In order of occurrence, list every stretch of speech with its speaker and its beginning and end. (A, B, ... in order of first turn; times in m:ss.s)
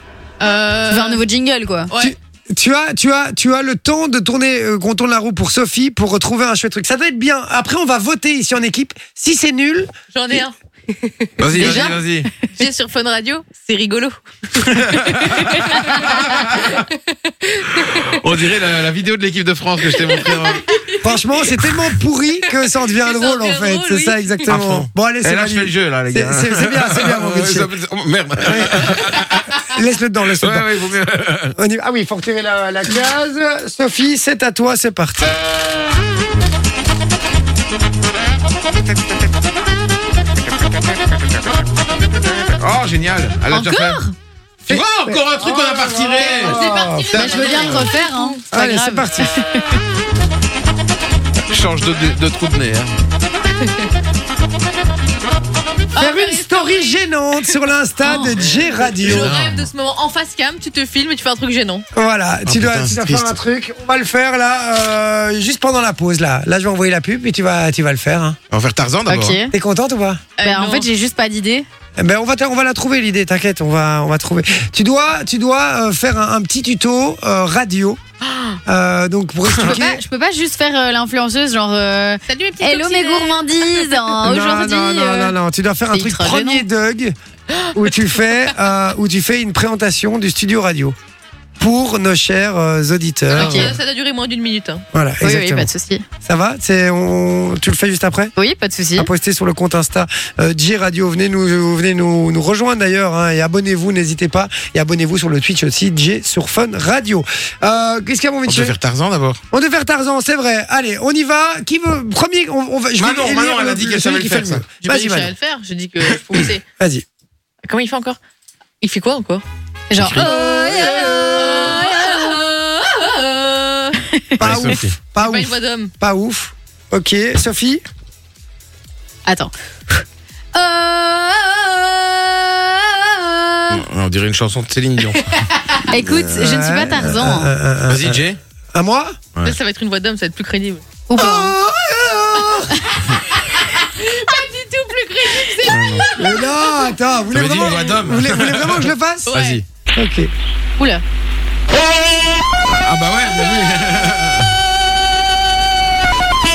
0:00.4-0:01.2 A
0:00.9-0:01.9 B
0:01.9-0:02.2 A
0:02.0-0:09.9 C
0:10.1-0:18.2 A
0:11.4-0:12.3 D
0:14.6-0:16.8 D
0:17.7-0:20.7 D
0:19.9-0:21.7 A
0:21.0-0:27.7 C
0:22.5-0:24.6 A
0:24.5-0:29.6 D
0:28.4-0:28.9 C
0:29.7-0:30.8 C
0:30.4-0:31.6 D
0:31.6-0:35.3 C
0:42.6-0:44.0 D
0:43.5-0:44.2 B
0:44.7-0:47.1 C
0:44.7-0:47.9 D
0:46.2-0:48.4 A
0:47.1-0:49.7 B
0:48.5-0:49.3 C
0:51.5-0:52.9 D
0:53.6-0:53.9 A
0:55.9-1:01.9 A
0:56.0-0:59.3 C
0:59.0-0:59.7 D
1:01.9-1:08.4 C
1:02.5-1:03.4 D
1:08.5-1:09.4 D
1:09.1-1:09.5 B
1:09.5-1:10.2 C
1:10.4-1:10.9 A
1:10.4-1:11.7 B
1:12.0-1:18.0 C
1:18.2-1:18.6 A
1:18.7-1:20.0 C
1:19.6-1:25.4 B
1:22.3-1:24.1 A
1:24.2-1:27.2 C
1:25.9-1:26.6 B
1:27.5-1:27.8 A
1:27.7-1:31.0 C
1:31.6-1:33.8 C
1:33.3-1:34.8 A
1:33.3-1:33.7 B
1:34.9-1:35.7 C
1:35.2-1:36.0 B
1:36.2-1:38.3 C
1:38.4-1:39.1 B
1:39.0-1:48.8 C
1:48.5-1:49.4 D
1:49.5-1:55.3 C
1:53.0-1:54.7 D
1:54.8-1:56.6 A
1:56.8-1:57.0 C
1:57.7-1:58.2 A
1:58.8-1:59.4 A
1:59.9-2:01.8 B
1:59.9-2:00.3 D
2:00.2-2:04.0 A
2:00.2-2:01.8 C
2:04.2-2:04.7 B
2:04.4-2:04.9 D
2:04.4-2:07.8 C
2:05.2-2:05.9 A
2:09.3-2:13.8 B
2:13.7-2:15.4 D
2:15.1-2:15.8 A
2:15.9-2:17.5 B
2:16.0-2:16.3 D
2:16.3-2:19.2 C
2:17.9-2:18.4 D
2:19.4-2:20.8 A
2:21.1-2:21.6 B
2:21.2-2:22.8 C
2:23.3-2:27.0 A
2:25.6-2:26.1 D
2:26.2-2:29.4 C
2:27.3-2:29.6 D
2:29.3-2:29.6 A
2:29.9-2:30.3 C
2:30.8-2:31.0 B
2:32.7-2:34.6 D